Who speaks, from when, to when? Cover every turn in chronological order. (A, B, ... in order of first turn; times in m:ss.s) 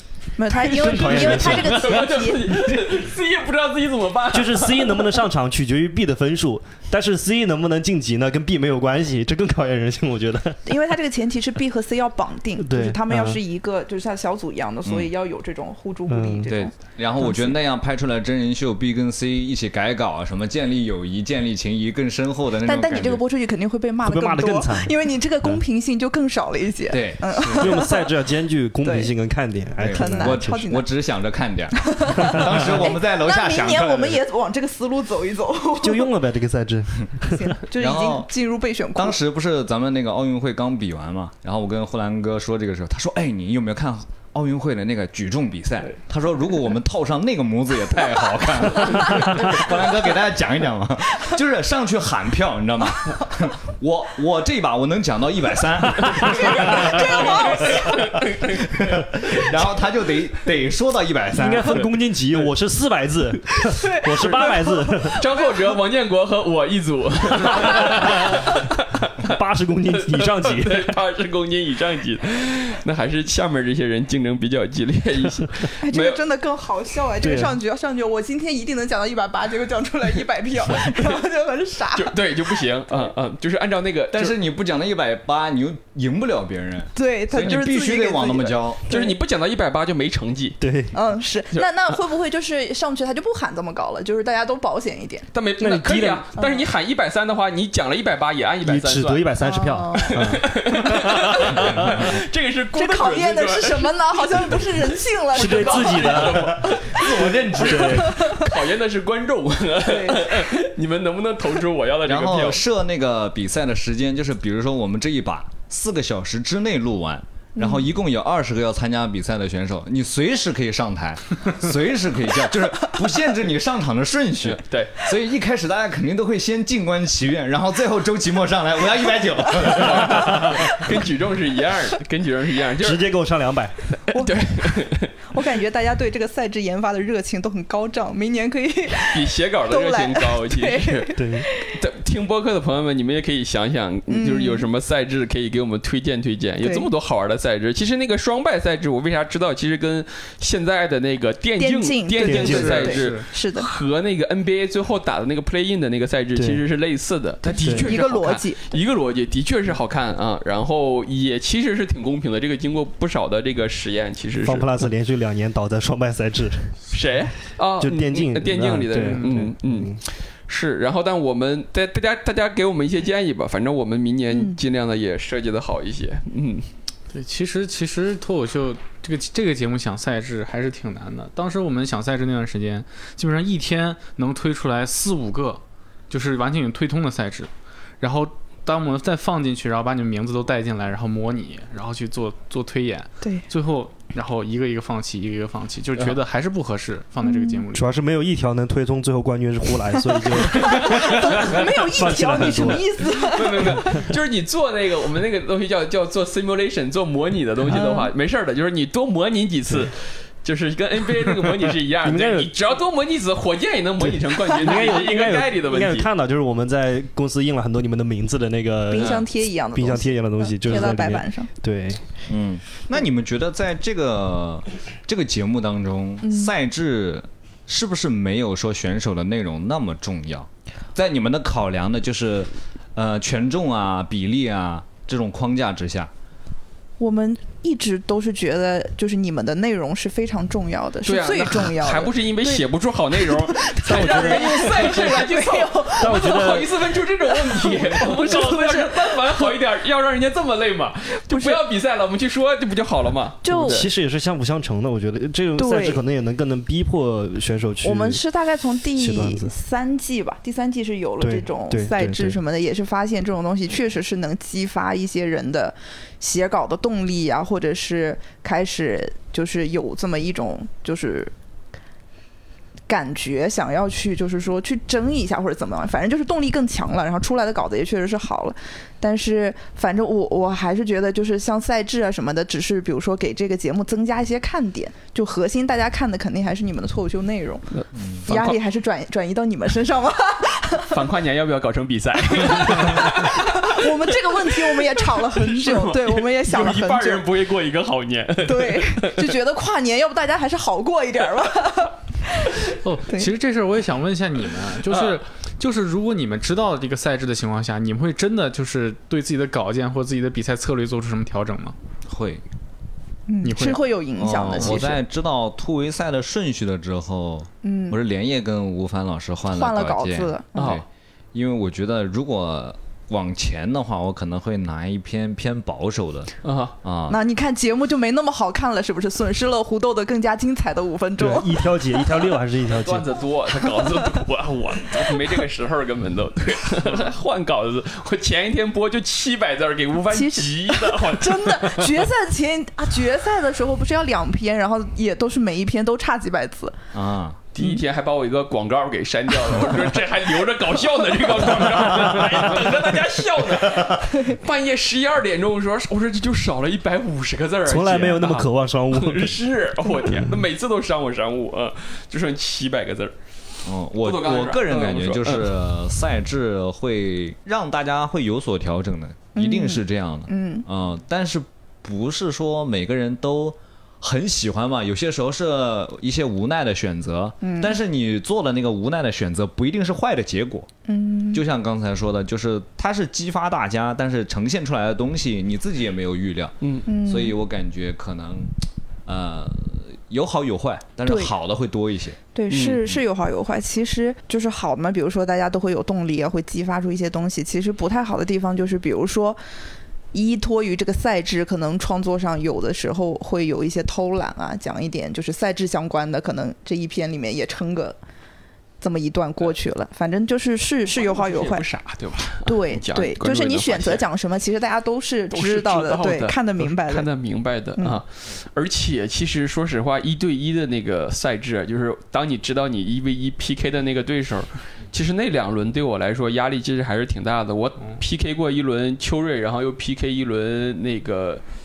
0:00.4-0:02.5 A
0:00.5-0:02.0 B
0:00.7-0:05.1 C
0:04.3-0:10.6 B
0:10.6-0:17.6 A
0:12.6-0:13.4 B
0:16.1-0:16.5 B
0:16.5-0:23.2 D
0:22.6-0:28.1 A
0:24.0-0:25.6 B
0:26.9-0:27.8 D
0:27.5-0:30.6 B
0:28.8-0:29.1 A
0:29.8-0:34.2 D
0:29.8-0:30.9 A
0:31.8-0:36.1 A
0:32.2-0:32.7 B
0:35.8-0:37.4 B
0:37.3-0:39.2 A
0:37.8-0:38.3 D
0:39.0-1:01.9 D
0:49.0-0:49.4 A
0:56.0-0:56.7 B
0:56.4-0:58.0 A
0:57.2-0:58.7 C
1:01.3-1:05.2 B
1:03.6-1:05.6 A
1:05.2-1:09.4 C
1:07.4-1:08.0 A
1:08.0-1:08.3 B
1:09.2-1:10.9 B
1:09.9-1:16.2 C
1:15.8-1:22.2 A
1:17.2-1:17.6 B
1:22.0-1:24.4 C
1:24.1-1:29.0 D
1:27.0-1:29.1 A
1:27.3-1:27.6 C
1:28.2-1:30.6 C
1:30.6-1:31.0 B
1:30.9-1:35.3 A
1:35.3-1:39.3 C
1:35.6-1:36.3 B
1:36.4-1:36.6 A
1:38.6-1:42.2 B
1:39.4-1:40.2 A
1:40.0-1:43.9 C
1:42.7-1:48.6 A
1:45.3-1:52.6 C
1:45.3-1:46.9 B
1:47.5-1:48.2 B
1:49.8-1:50.5 A
1:52.0-2:10.7 D
1:57.6-1:57.9 A
2:04.4-2:05.0 C
2:09.6-2:13.1 C
2:12.8-2:13.8 B
2:14.0-2:15.1 C
2:14.1-2:21.8 A
2:19.1-2:44.8 C
2:21.1-2:21.4 B
2:24.1-2:24.6 A
2:26.6-2:26.9 A
2:31.6-2:33.7 A
2:32.2-2:32.9 B
2:32.4-2:33.3 E
2:36.3-2:36.6 B
2:37.5-2:38.0 B
2:37.7-2:38.8 A
2:44.4-2:46.8 B
2:46.9-2:56.7 C
2:47.8-2:50.0 B
2:49.0-2:49.4 E
2:54.3-2:54.6 A
2:57.1-3:07.5 E
3:08.0-3:17.8 E
3:17.2-3:17.6 A
3:17.7-3:23.0 B
3:20.5-3:24.0 A
3:23.2-3:36.1 C
3:27.7-3:28.1 A
3:32.0-3:32.5 B
3:34.0-3:42.0 B
3:38.9-3:41.5 A
3:42.3-3:56.1 D
3:46.2-3:46.5 A
3:57.0-4:06.6 A
4:01.0-4:13.9 C
4:03.8-4:05.0 B
4:06.0-4:06.7 B
4:07.3-4:09.5 A
4:11.2-4:11.6 A
4:13.4-4:13.8 A
4:13.5-4:18.2 B
4:15.6-4:16.0 A
4:17.8-4:31.3 A
4:18.9-4:19.5 B
4:21.2-4:22.4 B
4:32.9-4:47.7 A
4:47.8-4:48.6 C
4:47.9-4:48.2 D
4:48.2-4:51.0 A
4:50.9-4:59.4 C
4:52.3-4:57.3 A
4:58.4-5:03.3 A
5:02.8-5:11.8 E
5:04.9-5:05.2 C
5:12.1-5:12.4 D
5:13.3-5:15.0 A
5:13.4-5:13.9 E
5:14.2-5:27.2 D
5:17.6-5:18.0 A
5:19.5-5:20.8 A
5:20.5-5:20.8 C
5:26.4-5:26.8 C
5:27.1-5:31.8 A
5:31.2-5:33.2 B
5:32.7-5:42.0 C
5:40.1-5:46.8 A
5:46.9-5:47.4 D
5:47.5-6:03.1 C
5:53.6-5:53.9 D
5:57.6-5:59.4 B
6:03.6-6:20.7 D
6:04.0-6:05.6 C
6:09.3-6:10.6 A
6:17.4-6:17.8 A
6:20.9-6:21.4 A
6:21.3-6:28.5 D
6:26.9-6:27.4 A
6:29.0-6:32.2 D
6:31.0-6:31.3 A
6:32.3-6:39.4 A
6:32.5-6:32.8 C
6:40.1-6:48.0 A
6:48.8-6:51.6 A
6:50.9-6:54.0 C
6:52.4-6:57.1 A
6:55.3-7:11.4 C